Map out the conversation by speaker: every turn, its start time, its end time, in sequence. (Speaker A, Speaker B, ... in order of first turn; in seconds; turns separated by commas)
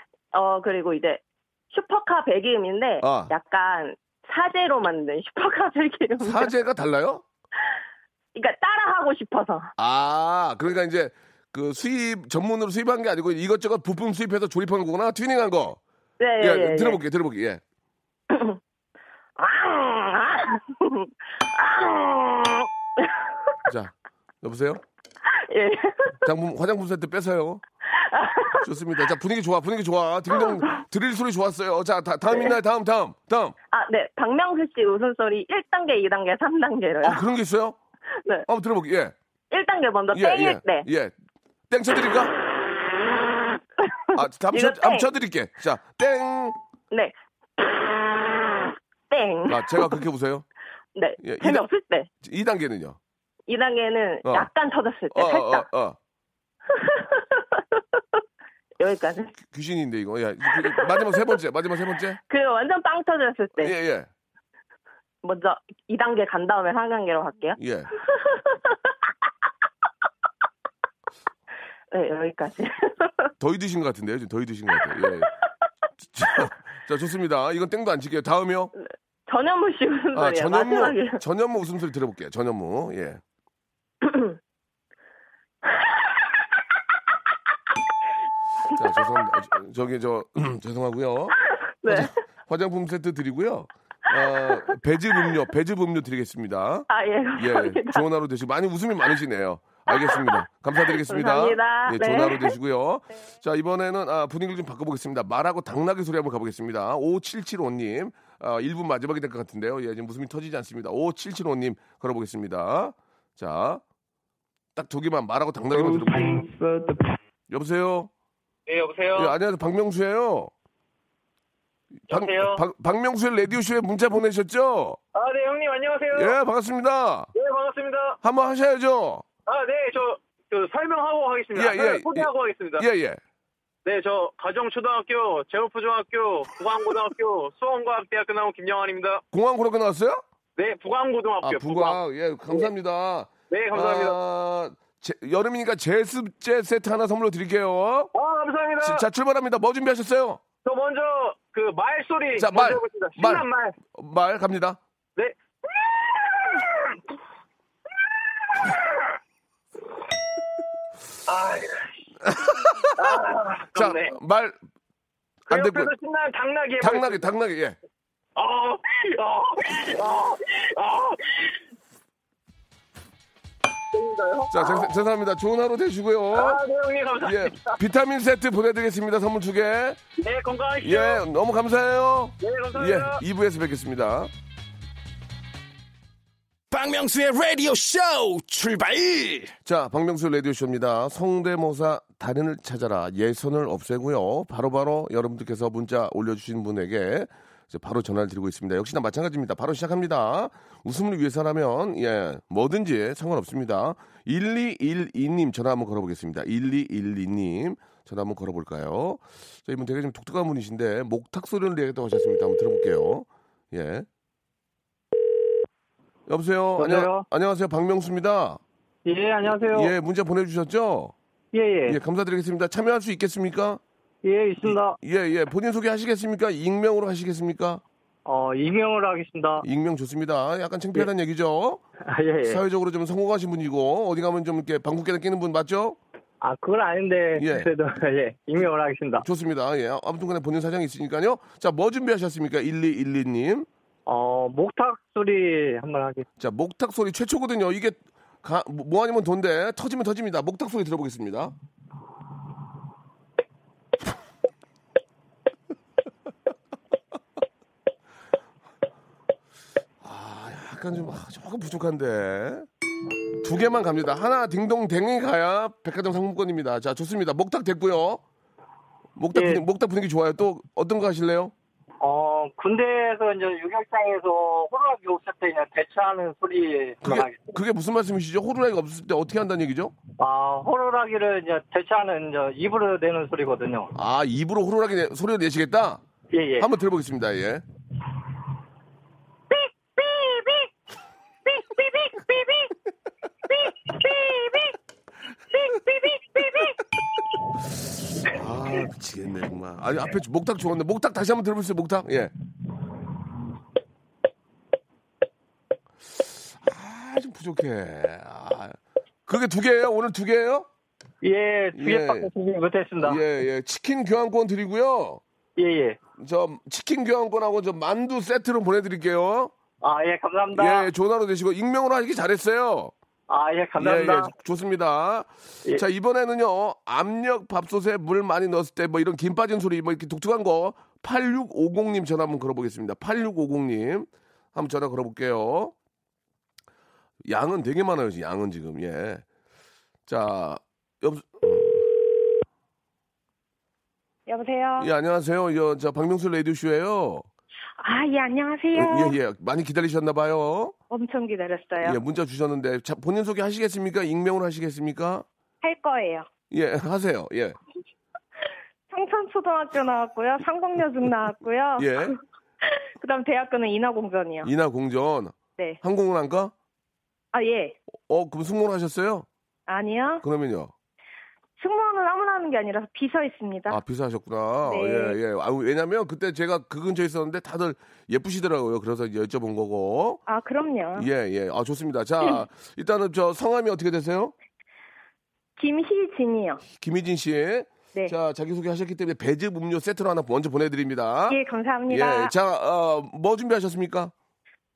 Speaker A: 0.3-6.5, Speaker B: 3.0-3.3, Speaker B: 6.2-7.2, Speaker A: 8.3-9.7, Speaker B: 9.8-15.8, Speaker A: 16.2-17.0, Speaker B: 16.4-17.6, Speaker A: 18.3-18.6, Speaker A: 19.4-23.2, Speaker B: 23.7-24.8, Speaker A: 25.5-26.1, Speaker B: 26.2-27.6, Speaker A: 27.9-28.6, Speaker B: 28.6-33.5, Speaker A: 30.3-30.8, Speaker A: 33.7-37.2, Speaker B: 37.0-37.8, Speaker B: 38.5-39.1, Speaker A: 39.5-40.8, Speaker B: 40.1-41.1, Speaker B: 41.7-42.3, Speaker A: 43.8-45.1, Speaker B: 44.1-46.6, Speaker A: 46.9-50.0, Speaker B: 49.5-50.5, Speaker A: 50.9-52.1, Speaker B: 51.2-51.7, Speaker B: 52.2-53.0, Speaker A: 53.5-55.6, Speaker B: 54.2-54.5, Speaker B: 55.1-56.0, Speaker A: 56.7-58.0, Speaker A: 58.8-59.3, Speaker B: 59.4-62.2, Speaker A: 60.6-61.3, Speaker A: 62.3-63.7, Speaker B: 63.6-64.1, Speaker A: 65.2-67.6, Speaker B: 67.6-67.9, Speaker A: 68.1-68.9, Speaker A: 71.9-73.3, Speaker B: 73.4-75.3, Speaker B: 76.1-78.7, Speaker A: 78.8-81.2, Speaker B: 80.1-83.2, Speaker A: 84.0-84.4, Speaker A: 85.7-86.1, Speaker B: 88.8-113.8, Speaker A: 91.4-92.2, Speaker A: 94.1-94.6, Speaker A: 96.9-98.0, Speaker A: 99.9-102.5, Speaker B: 114.8-116.5, Speaker B: 117.5-118.1, Speaker C: 118.7-119.3, Speaker B: 119.1-120.5, Speaker C: 122.1-122.6, Speaker B: 122.1-125.0, Speaker C: 125.1-126.3, Speaker B: 126.1-127.3, Speaker C: 127.3-128.2, Speaker B: 128.2-129.2, Speaker C: 129.5-132.8, Speaker B: 131.5-133.2, Speaker C: 133.8-139.2, Speaker B: 139.3-140.2, Speaker C: 140.6-142.7, Speaker B: 141.4-148.1, Speaker C: 143.5-144.2, Speaker C: 148.1-149.0, Speaker B: 148.8-150.4, Speaker C: 150.6-153.7, Speaker B: 152.4-154.8, Speaker C: 155.2-156.9, Speaker C: 158.5-159.0, Speaker C: 161.3-161.9, Speaker B: 162.3-163.1, Speaker C: 162.9-164.1, Speaker B: 163.7-164.6, Speaker C: 165.5-167.3, Speaker B: 165.5-165.9, Speaker B: 166.8-167.8, Speaker C: 168.3-171.6, Speaker C: 173.9-174.9, Speaker B: 174.5-176.6, Speaker C: 176.3-177.7, Speaker B: 177.2-180.0, Speaker C: 180.2-181.2, Speaker B: 180.8-184.3, Speaker C: 182.4-183.2, Speaker D: 186.7-189.5, Speaker B: 189.6-214.1, Speaker B: 216.3-218.6, Speaker E: 216.8-217.2, Speaker E: 219.0-219.9, Speaker B: 219.5-221.1, Speaker E: 221.5-222.0, Speaker B: 221.9-223.8, Speaker E: 224.2-225.0, Speaker B: 224.6-227.8, Speaker E: 228.2-229.6, Speaker B: 229.6-231.8, Speaker E: 232.1-232.6, Speaker B: 232.4-236.0, Speaker E: 236.4-239.2, Speaker B: 237.3-237.7, Speaker B: 239.2-243.7, Speaker E: 244.1-246.2, Speaker B: 246.4-251.5, Speaker B: 260.0-262.7, Speaker B: 263.4-268.2, Speaker B: 269.2-271.5, Speaker E: 269.3-269.6, Speaker E: 272.0-277.6, Speaker B: 277.0-279.9, Speaker E: 280.2-283.9, Speaker B: 283.9-286.0, Speaker E: 286.3-286.7, Speaker B: 286.6-287.6, Speaker B: 298.2-302.3, Speaker B: 306.2-308.8, Speaker B: 309.3-310.7, Speaker E: 311.2-313.2, Speaker B: 311.8-312.3, Speaker B: 313.0-315.2, Speaker E: 315.6-316.0, Speaker B: 316.2-319.5, Speaker E: 319.8-320.9, Speaker B: 320.5-322.9, Speaker E: 323.3-324.3, Speaker B: 323.8-335.7, Speaker B: 337.2-339.2, Speaker B: 340.1-341.8, Speaker F: 344.3-344.9, Speaker B: 344.8-347.2, Speaker F: 347.8-349.1, Speaker B: 348.7-350.7, Speaker F: 350.9-352.0, Speaker B: 351.8-355.2, Speaker F: 355.6-356.3, Speaker B: 356.5-357.6, Speaker F: 358.9-362.2, Speaker B: 361.8-362.1, Speaker F: 363.0-364.5, Speaker B: 364.4-366.5, Speaker F: 367.3-367.8, Speaker B: 368.1-369.3, Speaker F: 369.7-370.2, Speaker B: 370.2-370.7, Speaker F: 371.6-373.8, Speaker B: 373.7-380.2, Speaker F: 374.6-375.2, Speaker F: 380.3-381.1, Speaker B: 380.9-384.3, Speaker F: 385.6-386.6, Speaker B: 386.6-394.1, Speaker F: 391.3-392.3